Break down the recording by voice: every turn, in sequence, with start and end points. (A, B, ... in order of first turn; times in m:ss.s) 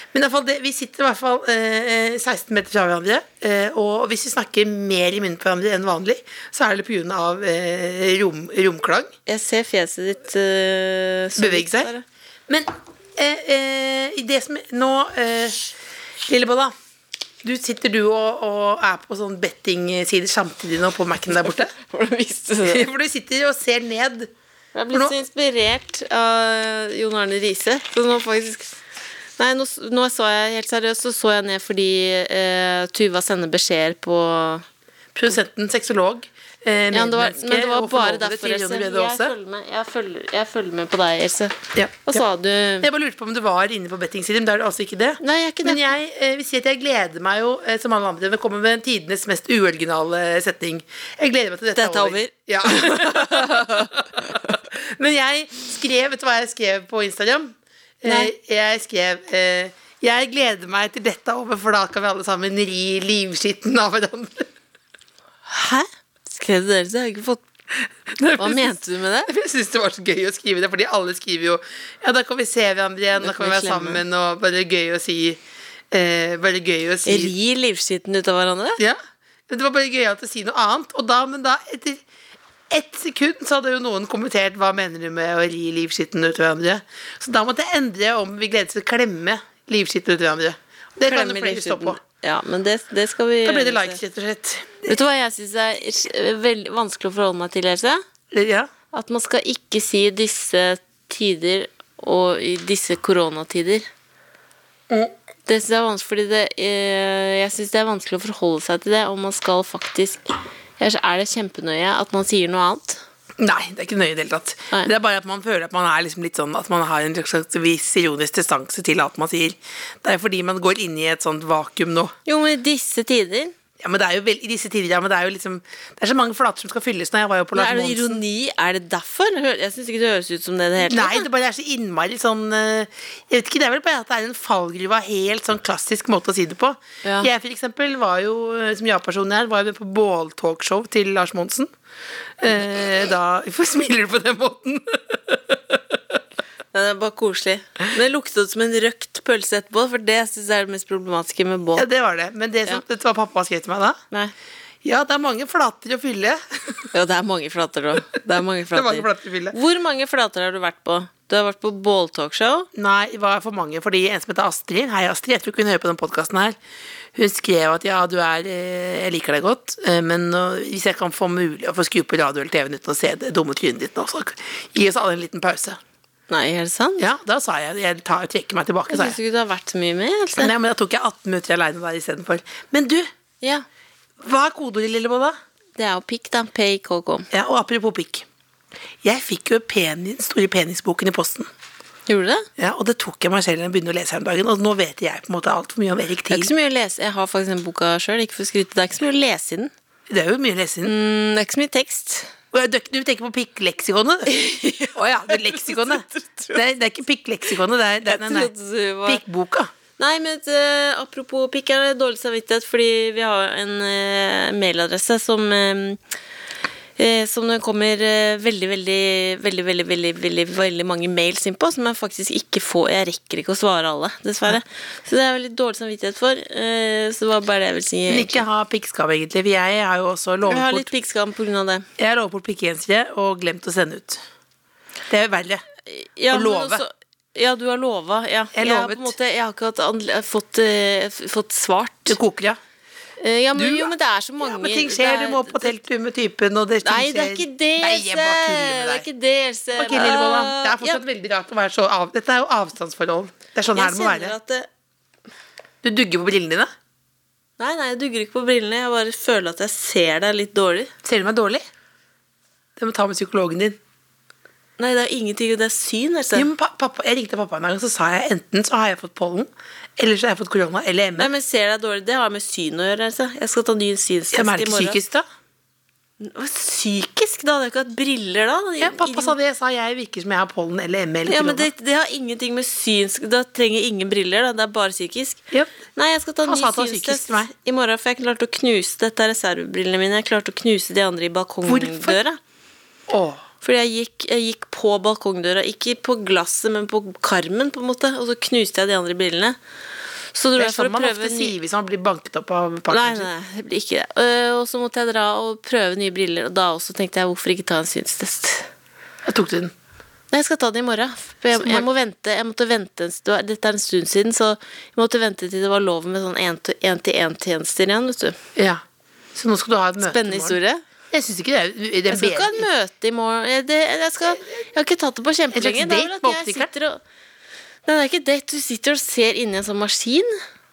0:00.1-0:09.1 A
0:09.2-0:12.0 B
0:11.4-0:11.9 A
0:12.5-0:15.7 A
0:16.3-0:16.7 A
0:17.4-0:21.7 A
0:21.4-0:22.9 B
0:22.6-0:24.3 A
0:24.7-0:28.8 B
0:29.4-0:34.6 B
0:35.1-0:39.3 A
0:36.9-0:42.9 B
0:41.7-0:42.2 A
0:42.8-1:04.5 A
0:45.2-0:45.8 B
0:51.7-0:54.4 B
0:58.0-0:58.3 B
1:05.5-1:07.4 B
1:08.0-1:17.3 A
1:08.4-1:09.3 B
1:13.2-1:14.0 B
1:17.0-1:18.8 B
1:18.8-1:22.0 A
1:22.7-1:32.0 A
1:31.0-1:34.0 B
1:33.4-1:34.9 A
1:34.8-1:38.0 B
1:38.3-1:38.7 A
1:38.9-1:43.8 B
1:45.5-1:50.3 B
1:50.8-1:53.0 B
1:53.4-2:02.1 A
2:02.2-2:03.5 B
2:03.8-2:08.2 A
2:07.5-2:11.2 B
2:10.8-2:21.7 A
2:17.0-2:17.3 B
2:22.4-2:26.2 A
2:26.7-2:31.9 B
2:31.7-2:34.0 A
2:34.8-2:36.9 A
2:36.9-2:42.7 B
2:38.7-2:39.6 A
2:42.7-2:46.6 A
2:47.1-2:55.8 A
2:56.3-2:57.0 B
2:57.0-2:59.2 A
2:58.9-3:00.5 B
3:00.4-3:03.1 A
3:03.4-3:03.6 B
3:04.2-3:05.4 A
3:05.8-3:07.3 B
3:07.3-3:08.2 A
3:09.0-3:11.5 A
3:12.1-3:12.4 B
3:12.6-3:16.5 A
3:16.3-3:19.7 B
3:20.1-3:20.9 A
3:20.8-3:22.3 B
3:22.5-3:28.5 A
3:24.3-3:26.6 B
3:28.0-3:29.2 B
3:29.0-3:29.7 A
3:30.0-3:36.0 B
3:37.0-3:48.4 B
3:48.1-3:50.9 A
3:50.4-3:51.8 B
3:52.0-3:54.2 A
3:55.1-3:55.6 A
3:55.8-4:02.2 B
3:56.3-3:56.8 A
3:58.5-3:59.1 A
4:02.1-4:02.6 A
4:03.2-4:05.8 B
4:03.5-4:09.1 A
4:06.8-4:11.0 B
4:09.7-4:14.3 A
4:13.7-4:14.7 B
4:15.8-4:16.7 A
4:17.6-4:20.9 B
4:21.0-4:21.6 A
4:22.8-4:23.8 A
4:24.8-4:26.5 B
4:26.3-4:31.3 A
4:31.2-4:35.0 B
4:34.3-4:35.2 A
4:36.2-4:39.3 B
4:38.8-4:41.7 A
4:41.3-4:45.4 B
4:45.5-4:45.8 A
4:45.9-4:52.4 B
4:46.4-4:47.5 A
4:51.6-4:52.2 A
4:53.1-4:53.4 A
4:53.6-4:59.6 B
5:00.3-5:01.6 B
5:00.6-5:03.3 A
5:02.9-5:08.7 B
5:09.2-5:09.7 A
5:10.3-5:18.4 B
5:11.5-5:11.9 A
5:18.6-5:18.8 A
5:19.3-5:20.6 A
5:20.0-5:20.8 B
5:21.1-5:22.7 A
5:22.1-5:27.0 B
5:25.5-5:26.7 A
5:27.8-5:30.3 B